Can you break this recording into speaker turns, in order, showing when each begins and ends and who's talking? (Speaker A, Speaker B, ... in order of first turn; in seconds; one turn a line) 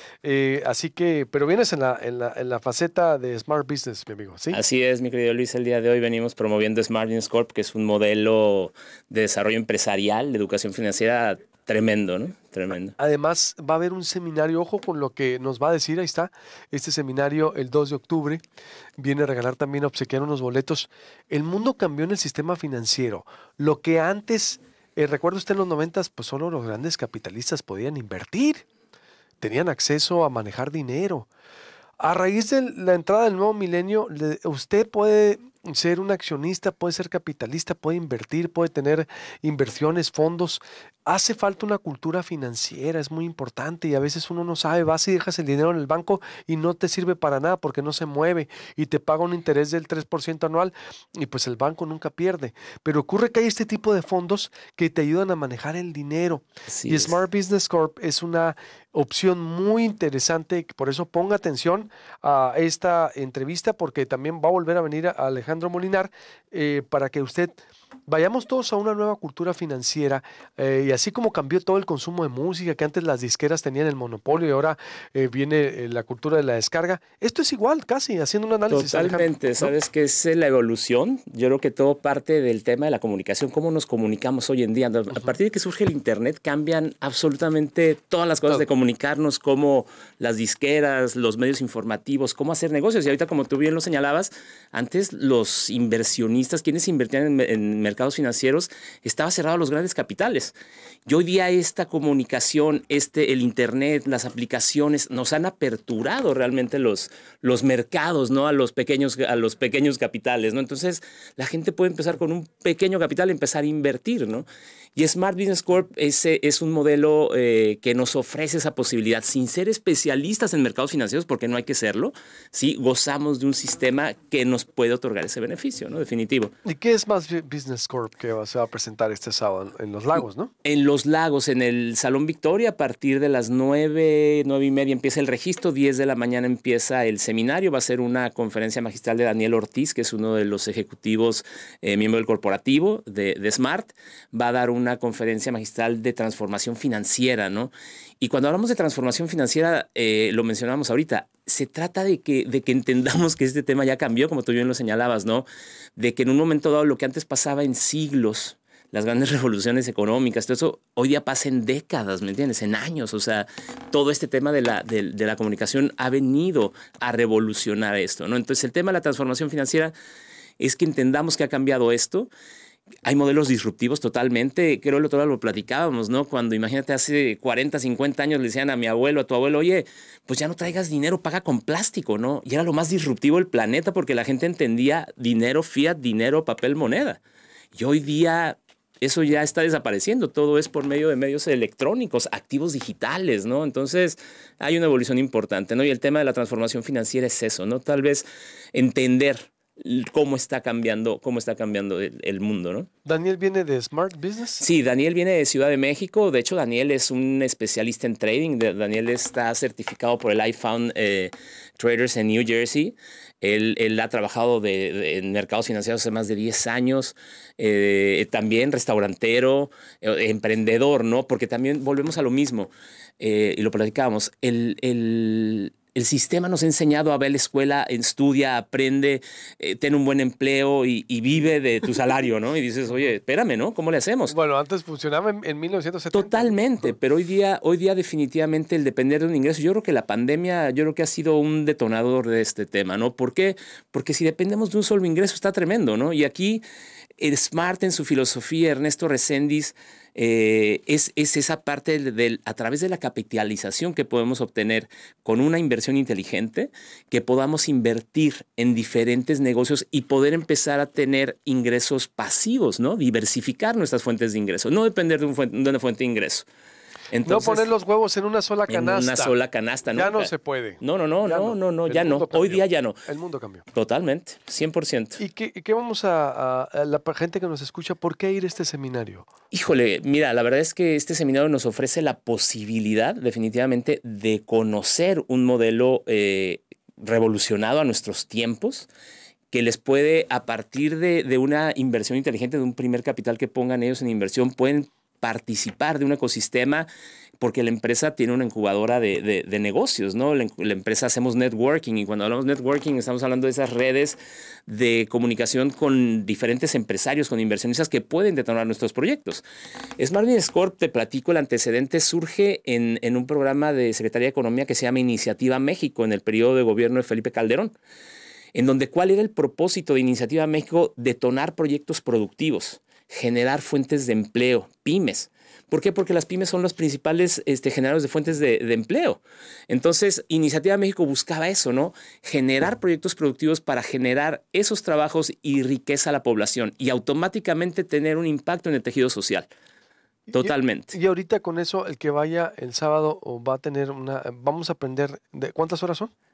Speaker A: 0.2-4.6
Speaker B: 4.5-12.9
Speaker A: 13.0-18.4
Speaker A: 19.0-28.6
Speaker A: 29.4-31.3
Speaker A: 32.0-79.7
Speaker B: 56.7-57.2
Speaker B: 78.7-100.5
Speaker B: 101.0-126.5
Speaker A: 126.6-130.5
Speaker B: 130.6-155.4
Speaker B: 156.0-169.9
Speaker B: 170.6-172.3
Speaker B: 173.0-187.2
Speaker B: 187.7-202.9
Speaker A: 203.1-204.6
Speaker B: 204.6-234.3
Speaker A: 234.3-236.6
Speaker B: 236.1-246.6
Speaker B: 247.2-266.4
Speaker B: 267.1-267.7
Speaker A: 267.2-269.3
Speaker B: 268.7-272.9
Speaker A: 269.9-273.6
Speaker B: 273.7-275.2
Speaker A: 275.2-279.3
Speaker B: 279.5-288.9
Speaker B: 289.5-296.9
Speaker B: 297.4-309.4
Speaker B: 310.0-317.7
Speaker B: 318.5-339.5
Speaker A: 340.3-346.1
Speaker B: 340.4-340.9